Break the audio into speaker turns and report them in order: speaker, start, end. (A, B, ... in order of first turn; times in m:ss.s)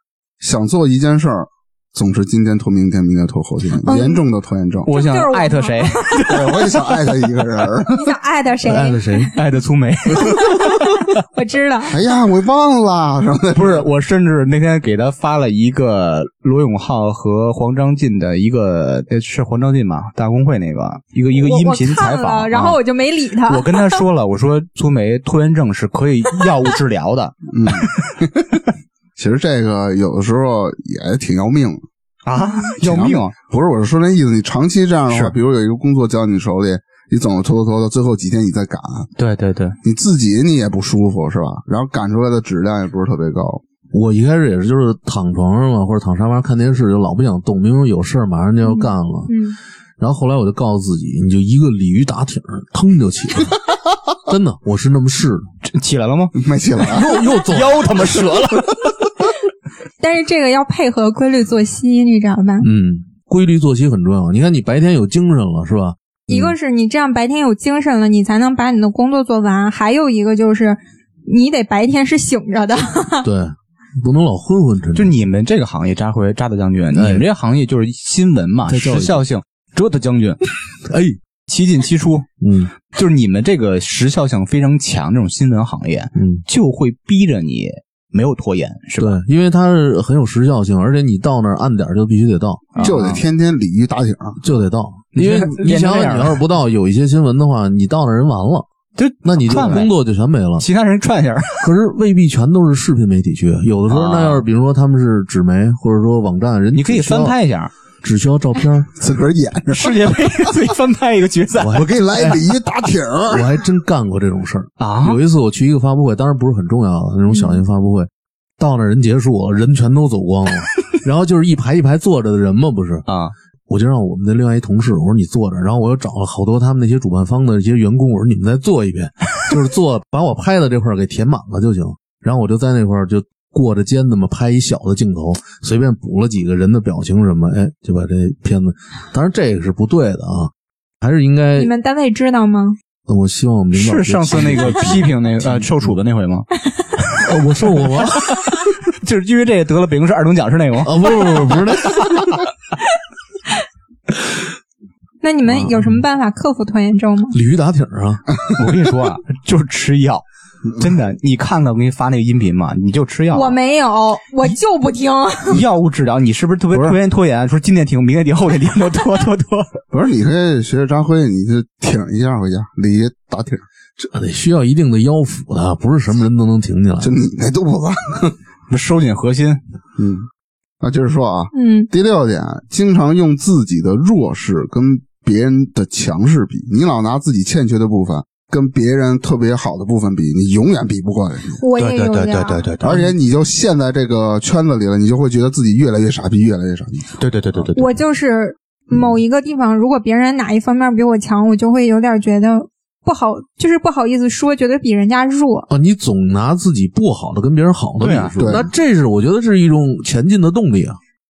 0:00.4-0:04.9 A
0:03.8-0:04.2 B
0:04.8-0:07.0 C
0:04.9-0:06.3 B
0:06.3-0:08.1 A
0:07.9-0:09.3 B
0:08.6-0:09.3 D
0:09.3-0:11.1 C
0:10.2-0:10.7 B
0:11.3-0:12.0 B
0:11.9-0:13.8 A
0:13.5-0:22.8 C
0:21.4-0:24.0 B
0:23.5-0:28.1 C
0:27.5-0:28.3 A
0:29.2-0:31.8 A
0:32.2-0:33.3 C
0:32.8-0:39.1 A
0:35.1-0:35.3 C
0:39.2-0:39.8 C
0:39.8-0:43.6 A
0:43.9-0:49.3 D
0:48.6-0:49.6 B
0:50.0-0:53.6 D
0:54.3-0:55.5 D
0:55.6-0:59.1 C
0:56.4-0:57.2 A
0:56.8-0:58.0 D
1:00.0-1:02.7 B
1:02.6-1:06.5 D
1:06.3-1:13.3 B
1:13.2-1:15.2 D
1:14.9-1:20.4 C
1:16.9-1:17.2 D
1:18.7-1:19.2 D
1:20.9-1:21.2 D
1:21.5-1:22.2 C
1:22.4-1:22.7 D
1:22.8-1:29.2 C
1:26.2-1:26.4 D
1:29.0-1:32.9 D
1:32.7-1:33.2 C
1:32.8-1:34.4 A
1:34.4-1:38.6 D
1:35.1-1:36.4 C
1:39.0-1:39.9 C
1:39.2-1:40.6 D
1:39.5-1:39.8 A
1:40.6-1:41.7 C
1:41.6-1:47.3 D
1:43.9-1:44.4 C
1:46.7-1:47.7 C
1:48.0-1:48.9 D
1:49.0-1:49.9 A
1:49.7-1:51.9 C
1:51.6-1:52.4 D
1:51.7-1:53.5 A
1:53.3-2:03.0 D
1:54.8-1:55.2 C
2:03.1-2:03.3 C
2:03.7-2:21.7 D
2:21.6-2:22.8 B
2:23.1-2:25.9 D
2:23.7-2:26.5 C
2:27.2-2:28.3 D
2:27.9-2:32.3 C
2:30.8-2:32.4 D
2:35.2-2:37.4 B
2:35.6-2:35.9 D
2:37.3-2:38.2 D
2:38.6-2:40.2 C
2:40.8-2:43.6 C
2:43.3-2:45.6 B
2:45.5-2:49.8 C
2:49.9-2:53.6 A
2:54.0-2:57.1 D
2:57.0-2:58.4 A
2:58.7-2:59.6 C
3:00.0-3:00.3 A
3:00.8-3:11.6 A
3:01.5-3:01.9 B
3:11.5-3:12.7 B
3:11.8-3:13.1 C
3:12.8-3:17.7 A
3:17.2-3:17.9 C
3:17.7-3:25.7 B
3:25.7-3:31.0 D
3:28.0-3:28.3 C
3:28.4-3:28.7 A